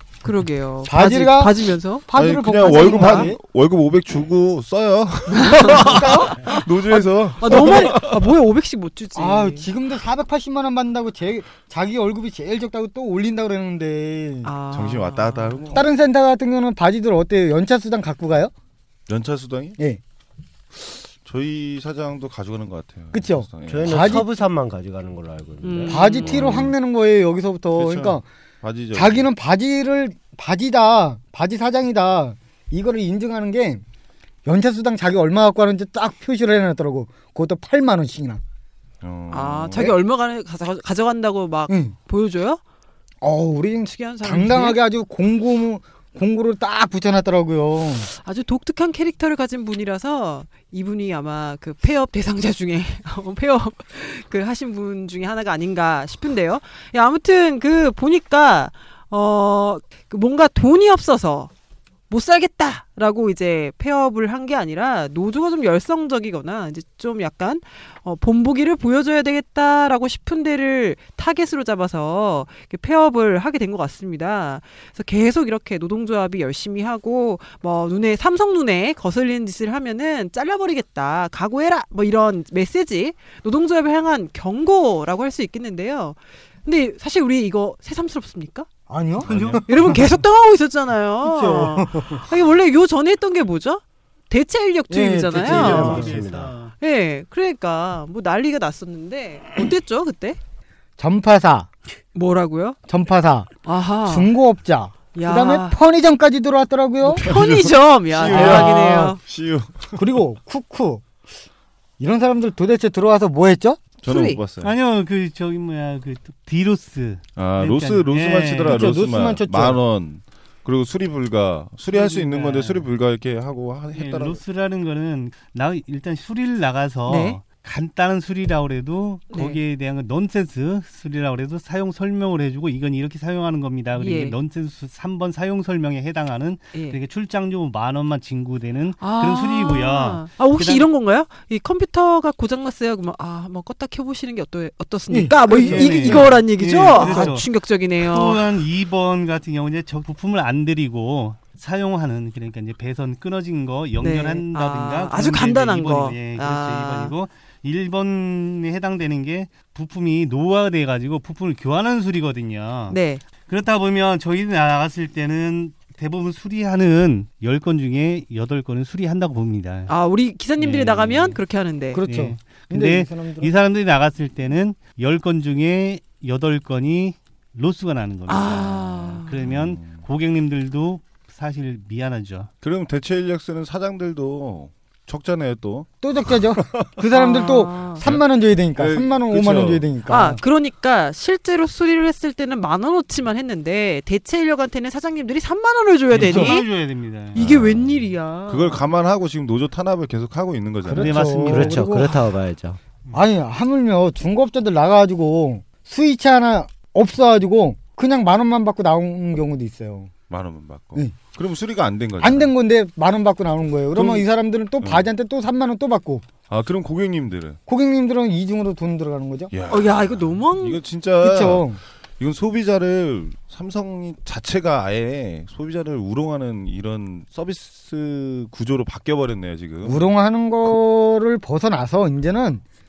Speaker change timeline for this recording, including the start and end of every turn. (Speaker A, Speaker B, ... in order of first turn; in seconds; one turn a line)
Speaker A: 0.2-2.1
Speaker B: 0.8-3.4
Speaker C: 2.1-8.3
Speaker A: 2.6-3.3
Speaker A: 5.3-9.7
Speaker B: 5.7-6.2
Speaker B: 7.5-7.8
Speaker B: 9.2-14.5
Speaker A: 14.4-15.8
Speaker C: 14.7-15.8
Speaker B: 15.7-18.5
Speaker C: 19.1-19.8
Speaker C: 20.7-24.2
Speaker B: 23.1-24.3
Speaker D: 23.7-26.4
Speaker A: 25.6-26.7
Speaker B: 25.9-28.3
Speaker C: 26.3-26.7
Speaker C: 27.7-29.3
Speaker B: 28.9-33.8
Speaker B: 34.5-38.4
Speaker C: 39.0-39.9
Speaker A: 39.3-42.6
Speaker B: 41.7-42.0
Speaker B: 43.2-48.1
Speaker A: 43.9-44.8
Speaker A: 48.1-61.5
Speaker A: 62.1-88.7
Speaker B: 88.9-90.0
Speaker E: 89.2-89.7
Speaker C: 89.3-89.6
Speaker A: 89.7-96.1
Speaker B: 91.2-92.2
Speaker B: 94.9-96.3
Speaker D: 95.3-96.5
Speaker E: 95.4-96.7
Speaker A: 96.8-100.4
Speaker B: 101.0-101.7
Speaker A: 102.2-102.8
Speaker B: 102.9-103.5
Speaker A: 103.7-104.3
Speaker B: 104.1-107.3
Speaker A: 105.1-105.8
Speaker A: 107.0-109.2
Speaker C: 107.2-110.0
Speaker B: 108.3-108.8
Speaker B: 110.0-111.0
Speaker B: 112.0-113.8
Speaker C: 114.0-114.7
Speaker A: 114.1-114.4
Speaker E: 114.6-119.0
Speaker C: 117.4-124.4
Speaker B: 118.6-119.8
Speaker E: 121.9-122.9
Speaker E: 123.9-140.9
Speaker A: 127.1-127.4
Speaker A: 129.3-129.6
Speaker A: 134.0-134.3
Speaker A: 139.0-148.4
Speaker B: 145.1-146.4
Speaker E: 145.5-147.5
Speaker B: 147.0-147.3
Speaker E: 148.0-169.9
Speaker A: 154.0-157.2
Speaker A: 162.9-163.2
Speaker A: 169.9-172.0
Speaker E: 170.6-171.4
Speaker B: 171.9-173.5
Speaker E: 172.0-182.5
Speaker A: 178.3-179.4
Speaker C: 179.4-180.0
Speaker C: 182.6-185.9
Speaker B: 186.0-190.4
Speaker C: 186.6-186.9
Speaker A: 187.1-188.0
Speaker C: 188.0-189.9
Speaker A: 190.1-196.7
Speaker E: 196.1-197.4
Speaker B: 196.2-196.5
Speaker A: 197.3-198.8
Speaker C: 197.3-201.4
Speaker B: 200.8-202.2
Speaker E: 201.0-202.2
Speaker D: 201.5-202.8
Speaker B: 203.1-210.1
Speaker C: 210.3-212.5
Speaker B: 212.2-216.2
Speaker C: 213.9-214.2
Speaker C: 214.8-215.1
Speaker C: 216.5-217.6
Speaker B: 217.7-219.5
Speaker C: 219.5-230.1
Speaker A: 219.7-220.8
Speaker B: 221.2-221.8
Speaker B: 229.8-232.6